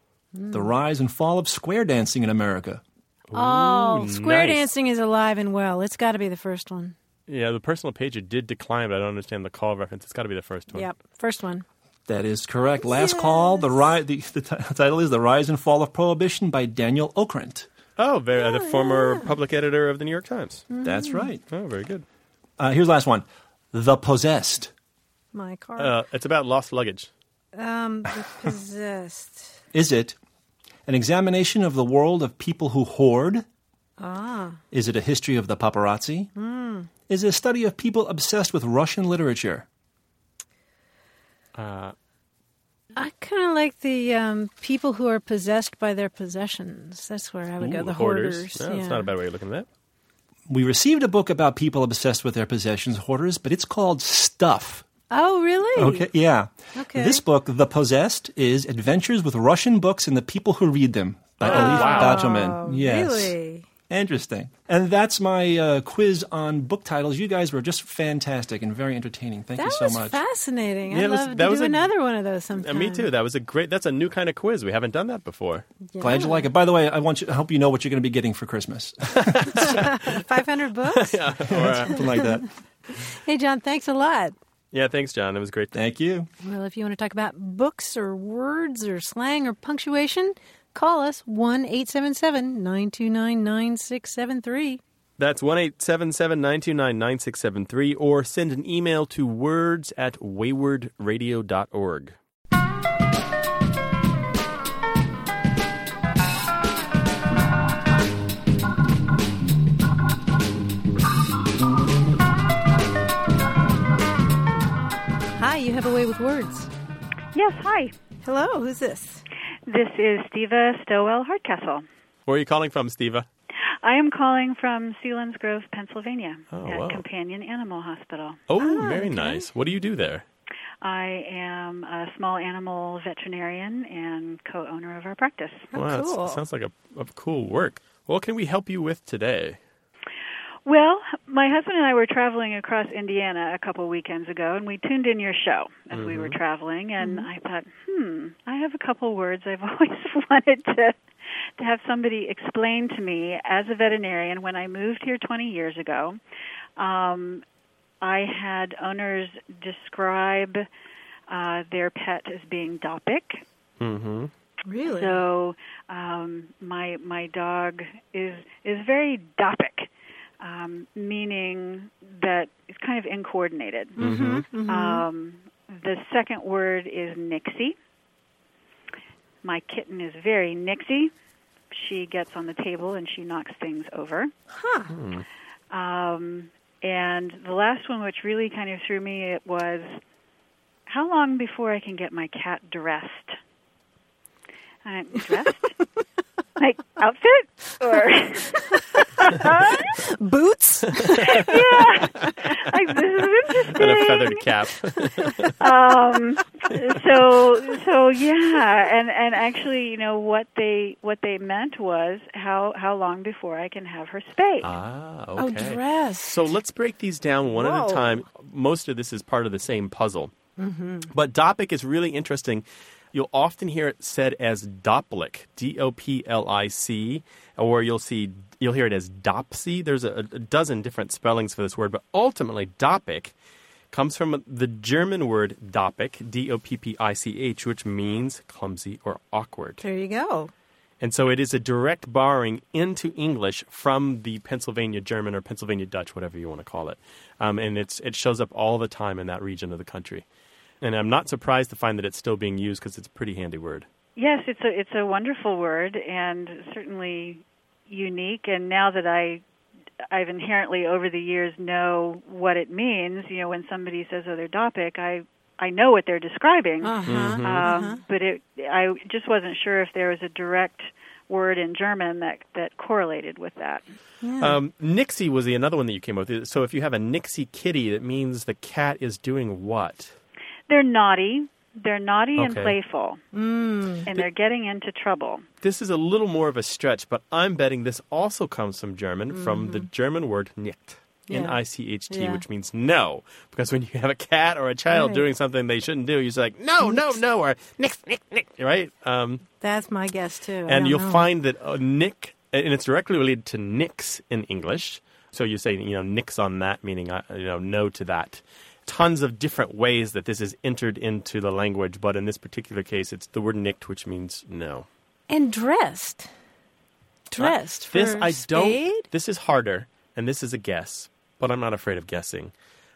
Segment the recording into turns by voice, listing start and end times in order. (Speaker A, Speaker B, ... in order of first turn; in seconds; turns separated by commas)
Speaker A: 0.3-0.7, Speaker B: 0.5-2.8, Speaker C: 3.3-4.7, Speaker A: 3.3-6.9, Speaker C: 7.3-10.9, Speaker A: 10.7-11.6, Speaker B: 12.1-17.7, Speaker A: 12.8-13.7, Speaker C: 18.0-20.6, Speaker A: 18.3-19.3, Speaker A: 20.7-21.3, Speaker B: 20.8-21.4, Speaker C: 21.5-22.0, Speaker B: 22.6-24.7, Speaker A: 25.3-25.9, Speaker C: 25.8-27.1, Speaker A: 27.6-29.6, Speaker B: 29.7-30.2, Speaker B: 30.9-33.4, Speaker A: 34.0-34.6, Speaker B: 34.7-36.3, Speaker A: 36.4-36.9, Speaker B: 37.1-39.6, Speaker C: 41.5-41.9, Speaker A: 43.0-49.1, Speaker C: 47.6-49.7, Speaker B: 50.5-54.9, Speaker A: 55.1-56.1, Speaker B: 55.8-63.4, Speaker A: 56.8-57.2, Speaker C: 61.4-62.2, Speaker A: 61.4-63.7, Speaker B: 63.9-70.2, Speaker A: 69.5-73.1, Speaker C: 70.9-71.9, Speaker C: 72.5-75.7, Speaker A: 75.9-76.5, Speaker B: 76.0-79.9, Speaker C: 79.2-79.8, Speaker A: 79.5-81.3, Speaker C: 80.9-82.1, Speaker B: 81.5-82.5, Speaker A: 81.9-82.5, Speaker A: 83.0-84.3, Speaker C: 84.7-85.8, Speaker B: 85.7-86.3, Speaker A: 86.4-94.8, Speaker C: 95.2-102.2, Speaker A: 115.4-116.7, Speaker D: 117.3-117.9, Speaker A: 118.2-119.2, Speaker D: 119.7-121.8, Speaker C: 122.2-123.3, Speaker D: 123.8-128.4, Speaker C: 126.5-127.0, Speaker C: 128.5-130.2, Speaker A: 128.6-129.5, Speaker D: 130.8-135.7, Speaker A: 135.7-136.4, Speaker C: 135.7-139.6, Speaker D: 140.7-151.0, Speaker C: 145.9-146.4, Speaker A: 147.0-147.3, Speaker D: 151.6-156.2, Speaker D: 156.8-157.4, Speaker D: 158.0-160.7, Speaker D: 161.3-163.4, Speaker C: 163.8-164.3, Speaker A: 164.7-165.2, Speaker D: 164.8-169.9, Speaker D: 170.4-174.0, Speaker A: 174.0-175.0, Speaker C: 174.0-174.4, Speaker D: 174.7-177.8, Speaker D: 179.4-181.1, Speaker D: 181.7-184.3, Speaker A: 184.5-184.9, Speaker C: 184.9-185.2, Speaker D: 185.7-190.0, Speaker D: 190.9-193.4, Speaker D: 194.8-195.8, Speaker D: 196.6-200.0, Speaker A: 199.0-202.3, Speaker C: 201.2-201.4, Speaker D: 201.2-204.4, Speaker C: 203.7-205.5, Speaker A: 203.8-204.3, Speaker A: 205.0-205.5, Speaker D: 205.6-214.7, Speaker C: 214.6-220.3, Speaker A: 215.4-216.5, Speaker A: 217.5-218.2, Speaker A: 220.6-221.1, Speaker C: 221.1-233.3, Speaker C: 233.9-239.8, Speaker A: 239.8-240.5, Speaker C: 241.0-250.2, Speaker C: 250.8-253.8, Speaker D: 254.2-259.4, Speaker D: 260.1-273.9, Speaker A: 266.8-268.0, Speaker C: 267.1-267.7, Speaker A: 274.2-274.6, Speaker C: 274.4-280.1, Speaker D: 280.7-283.2, Speaker C: 282.4-282.7, Speaker A: 283.3-284.1, Speaker D: 284.1-285.4, Speaker C: 285.6-299.4, Speaker A: 289.3-289.9, Speaker A: 291.3-292.4, Speaker A: 294.9-295.3, Speaker A: 296.8-297.2, Speaker A: 299.6-301.3, Speaker C: 300.7-314.9, Speaker A: 315.3-316.3, Speaker A: 317.3-319.1, Speaker C: 317.4-322.5